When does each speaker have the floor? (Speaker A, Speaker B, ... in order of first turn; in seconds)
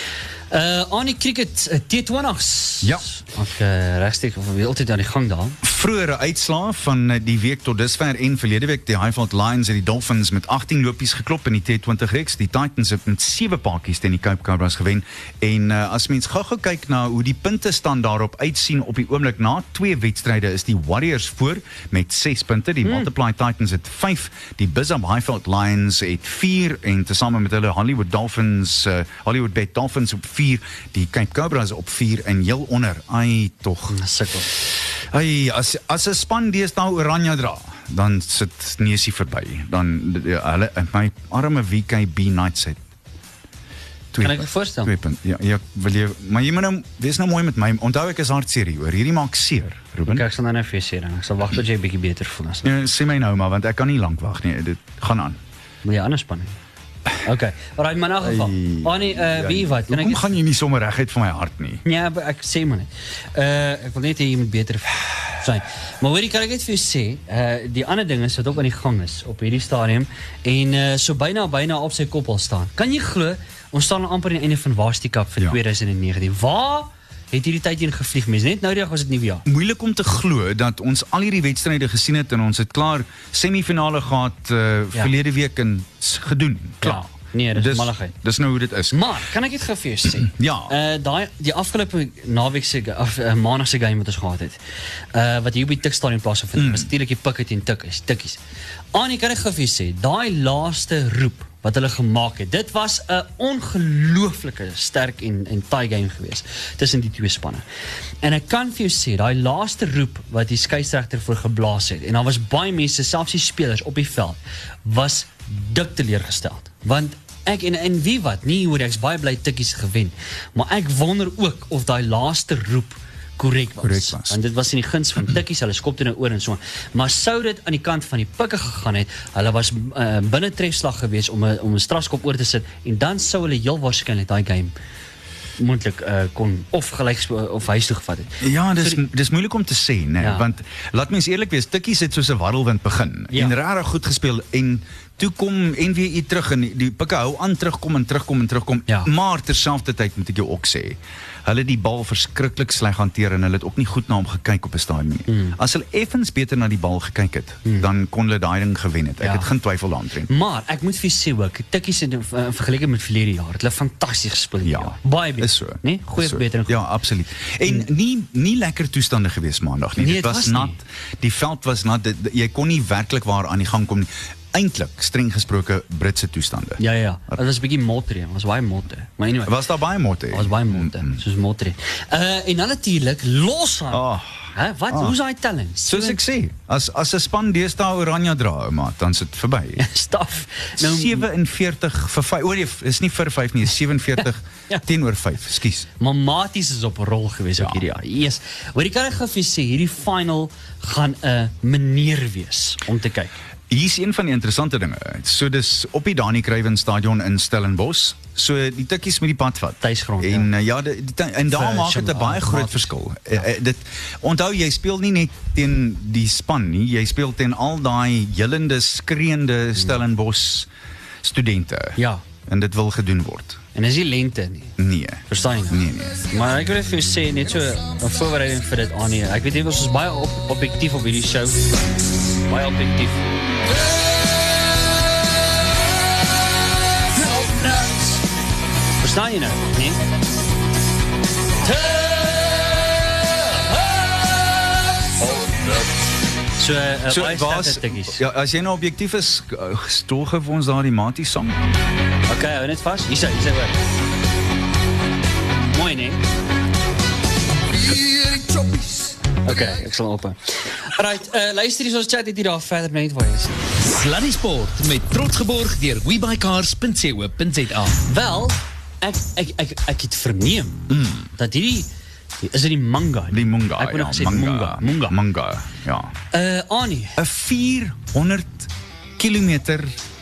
Speaker A: 0.5-5.6, 33.9-34.5, 44.2-44.9, 50.1-52.7, 55.8-56.5, 57.2-60.2, 61.8-79.5, 86.8-88.1, 88.9-94.6, 95.1-98.4, 98.9-107.7, 108.2-134.7, 135.6-139.0, 140.2-140.4, 155.3-155.6, 159.2-159.5, 160.3-166.7, 170.0-170.8, 176.8-179.5, 180.3-186.2, 189.8-191.3, 196.0-203.3, 209.8-210.5, 211.5-212.9, 222.0-222.2, 223.7-224.7, 225.3-225.8, 226.3-231.7, 232.4-233.2, 237.1-238.2, 239.0-240.0, 241.6-245.9, 246.6-248.2, 252.3-253.8, 255.7-256.2, 259.4-263.6, 268.0-270.8, 271.4-271.9, 272.4-275.1, 276.3-277.2
Speaker B: 2.8-3.1, 5.6-34.0, 34.5-42.8, 44.1-50.2, 52.6-55.4, 58.2-61.8, 79.5-89.1, 90.2-90.7, 96.5-96.9, 123.8-124.4, 138.4-160.3, 164.6-177.4, 179.4-181.2, 183.9-185.2, 185.8-189.8, 190.8-195.9, 203.7-220.7, 221.2-223.6, 224.8-226.3, 247.1-251.6, 270.9-271.3, 273.3-276.1, 277.2-279.9
Speaker C: 258.0-258.8, 263.8-268.0